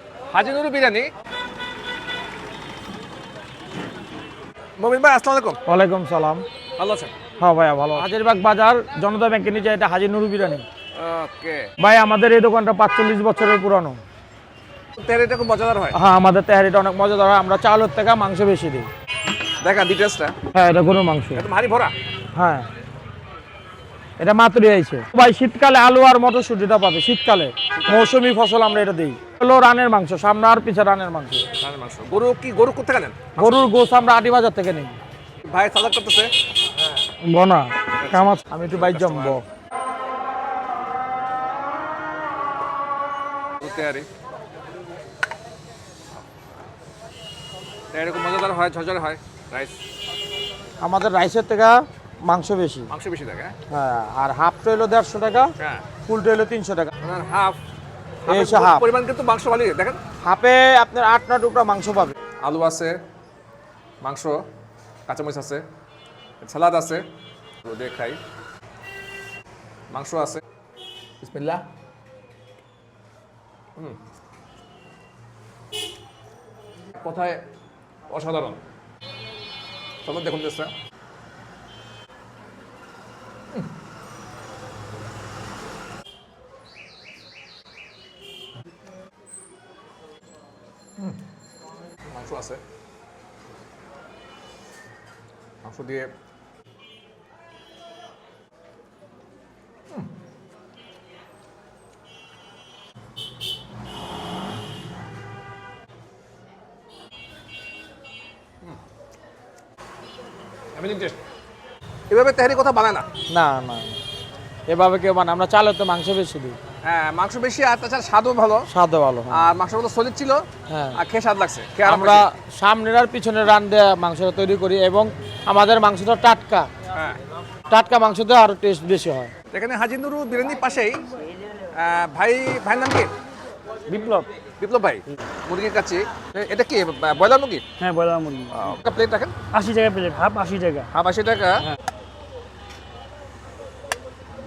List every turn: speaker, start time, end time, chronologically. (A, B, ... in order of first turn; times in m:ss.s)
0:00.3-0:01.1 A
0:04.8-0:05.6 A
0:05.6-0:06.4 B
0:06.8-0:07.1 A
0:07.4-0:10.6 B
0:10.9-0:11.7 A
0:11.8-0:14.0 B
0:15.0-0:16.0 A
0:15.9-0:18.9 B
0:19.6-0:20.3 A
0:20.5-0:21.4 B
0:21.3-0:21.9 A
0:22.3-0:22.7 B
0:24.2-0:31.4 B
0:27.7-0:28.1 A
0:31.6-0:33.6 A
0:33.4-0:35.0 B
0:35.4-0:36.3 A
0:37.2-0:39.4 B
0:38.0-0:39.4 A
0:43.6-0:44.1 A
0:47.9-0:49.8 A
0:50.8-0:52.9 B
0:52.9-0:53.5 A
0:53.7-0:55.5 B
0:56.0-0:56.9 B
0:57.0-0:57.6 A
0:58.2-1:00.0 A
0:58.3-0:58.8 B
1:00.2-1:02.2 B
1:02.4-1:03.0 A
1:04.0-1:04.4 A
1:05.1-1:05.6 A
1:06.4-1:07.0 A
1:07.6-1:08.2 A
1:09.9-1:10.4 A
1:11.2-1:11.6 A
1:17.0-1:17.4 A
1:18.1-1:18.6 A
1:20.0-1:20.7 A
1:32.1-1:32.6 A
1:35.6-1:36.1 A
1:50.7-1:51.2 A
1:52.1-1:53.0 A
1:53.3-1:54.0 B
1:54.7-1:56.6 B
1:56.8-1:58.6 A
1:58.7-1:59.4 B
1:59.3-2:02.2 A
2:00.7-2:01.0 B
2:01.8-2:06.7 B
2:06.9-2:07.2 A
2:07.7-2:09.3 B
2:09.5-2:11.0 A
2:11.7-2:13.1 A
2:13.9-2:14.3 C
2:14.6-2:17.6 A
2:17.8-2:18.6 C
2:18.5-2:19.4 A
2:19.5-2:20.9 C
2:20.9-2:21.7 A